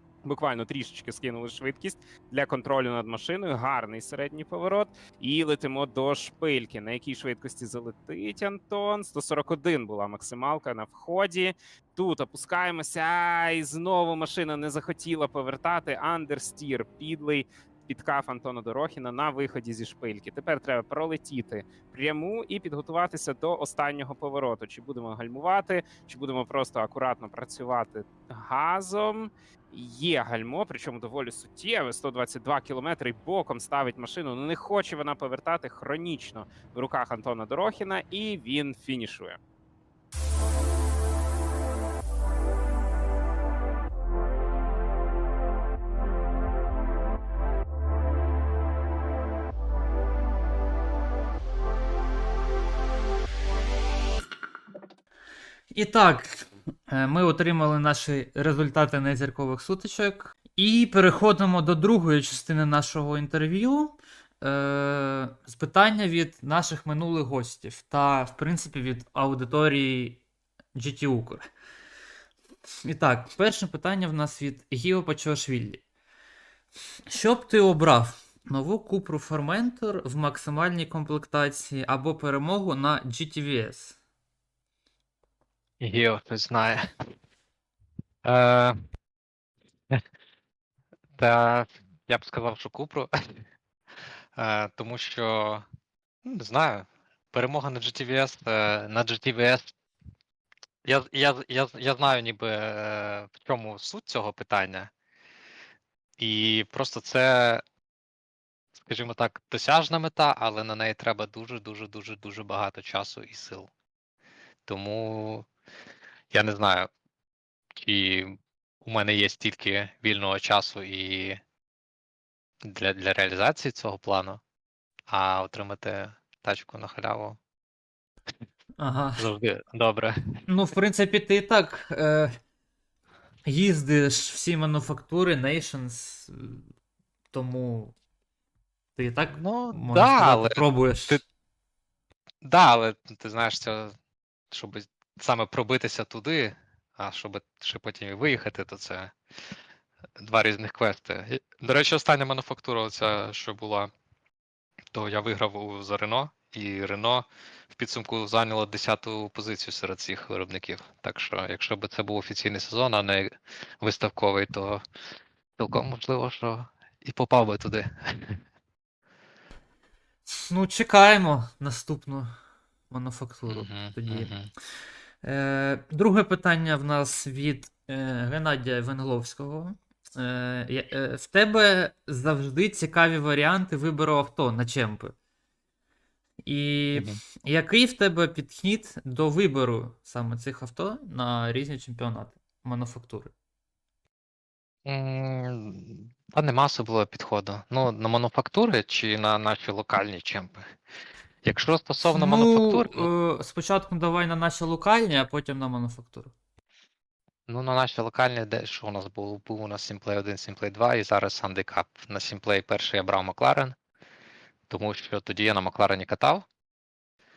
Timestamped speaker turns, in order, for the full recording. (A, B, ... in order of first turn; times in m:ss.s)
0:00.2-0:39.4 A
0:55.7-1:10.2 B
1:10.7-1:11.4 B
1:12.8-1:15.8 B
1:17.1-1:24.0 B
1:25.8-1:26.9 C
1:28.2-1:28.8 C
1:31.2-1:33.1 C
1:34.3-1:35.6 C
1:36.2-1:39.7 C
1:40.8-1:44.9 C
1:46.2-1:47.6 C
1:48.8-1:53.7 C
1:54.6-1:55.5 C
1:56.3-1:56.9 C
1:57.7-2:01.4 C
2:02.6-2:04.4 C
2:05.1-2:07.4 C
2:08.8-2:09.3 B
2:09.2-2:10.4 C
2:10.5-2:12.3 B
2:13.4-2:16.6 B
2:17.3-2:17.9 B
2:19.0-2:21.2 B
2:19.3-2:21.2 C
2:22.4-2:23.9 C
2:24.5-2:29.1 C
2:30.2-2:33.9 C
2:34.9-2:44.8 C
2:45.6-2:48.4 C
2:50.3-2:52.4 B
2:52.9-2:54.3 B
2:53.5-2:54.5 C
2:55.2-3:05.1 B
3:06.4-3:13.3 B
3:14.8-3:20.7 C
3:21.4-3:23.1 C
3:22.0-3:26.3 B
3:27.5-3:33.8 C
3:34.7-3:36.4 C